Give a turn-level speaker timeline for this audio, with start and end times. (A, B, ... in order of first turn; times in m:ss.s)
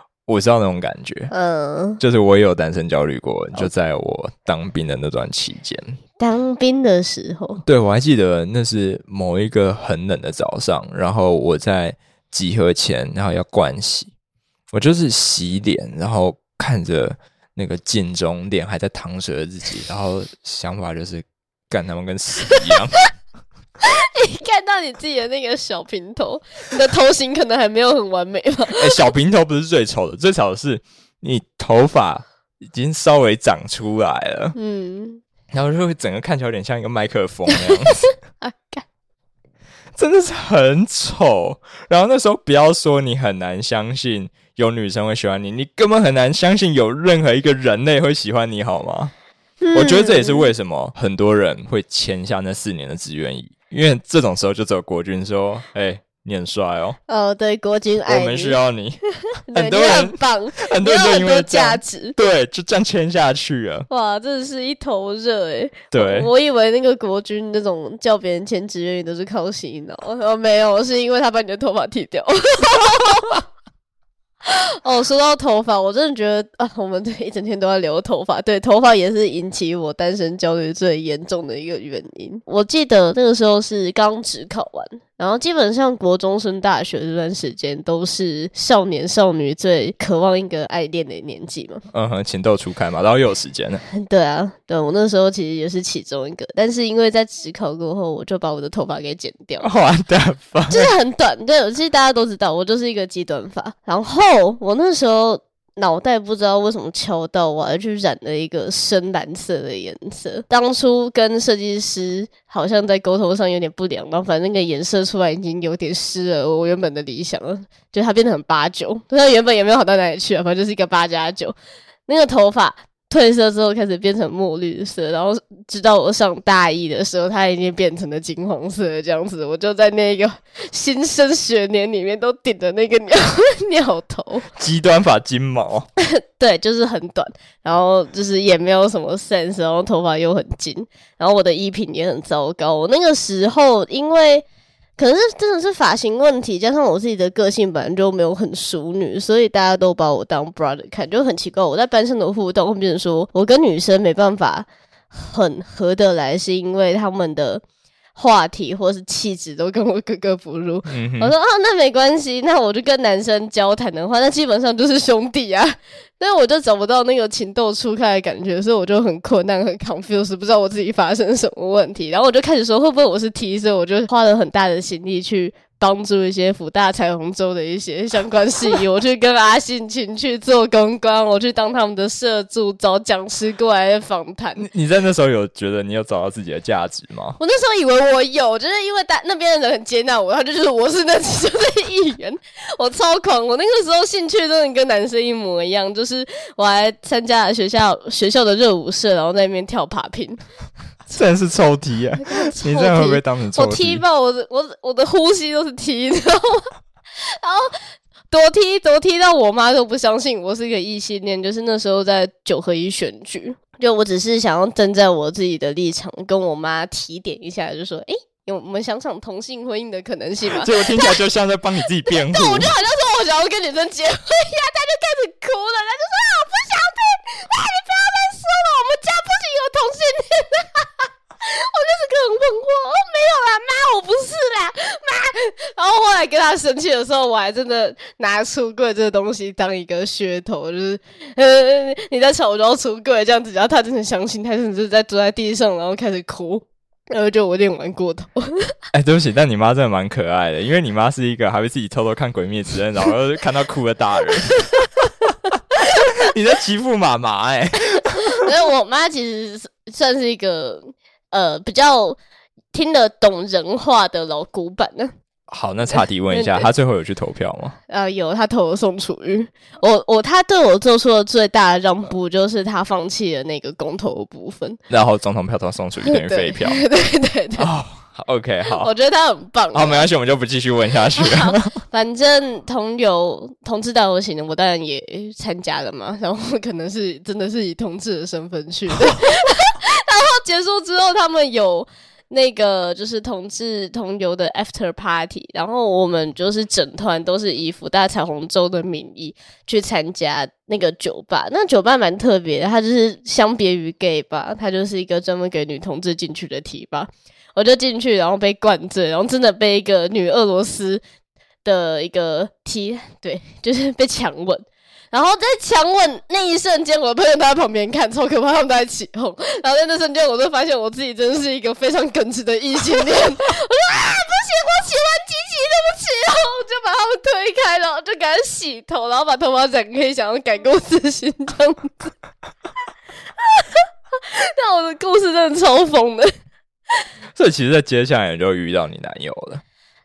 0:00.3-0:01.3 A
0:01.3-0:02.0 B
0:02.0-0:06.0 A
0:06.2-0:07.6 B
0:07.6-0:14.1 A
0:14.7-0:22.9 A
0:23.8-0:28.9 B
0:28.7-0:34.5 A
0:34.5-0:35.2 B
0:35.5-0:38.0 A
0:38.4-0:38.8 B
0:40.0-0:49.1 A
0:49.6-0:50.5 B
0:49.7-0:57.0 A
0:57.1-0:58.6 B
0:58.1-0:59.0 A
0:59.5-1:02.1 B
0:59.5-1:03.9 A
1:03.9-1:13.4 B
1:05.9-1:06.3 A
1:14.4-1:31.8 B
1:31.9-1:33.8 A
1:33.9-1:39.7 B
1:39.6-1:40.9 A
1:40.7-2:01.6 B
2:02.1-2:14.5 B
2:14.6-2:15.9 A
2:16.0-2:24.4 B
2:25.0-2:37.6 B
2:38.1-3:04.6 B
2:40.9-2:41.3 A
3:04.6-3:07.4 A
3:07.4-3:20.4 B
3:21.1-3:24.0 A
3:22.2-3:26.7 B
3:27.2-3:27.7 B
3:28.3-3:41.2 B
3:40.5-3:42.7 A
3:42.1-4:08.7 B
4:08.9-4:14.7 A
4:16.1-4:18.4 A
4:18.3-4:22.2 B
4:22.7-4:25.1 B
4:25.5-4:27.8 A
4:26.3-4:26.7 B
4:27.9-4:34.8 B
4:34.9-4:36.8 A
4:36.1-4:37.7 B
4:37.6-4:38.9 A
4:38.8-4:40.1 B
4:39.7-4:41.7 A
4:41.2-5:11.0 B
5:11.6-5:32.1 B
5:33.5-5:36.3 B
5:37.3-5:39.6 A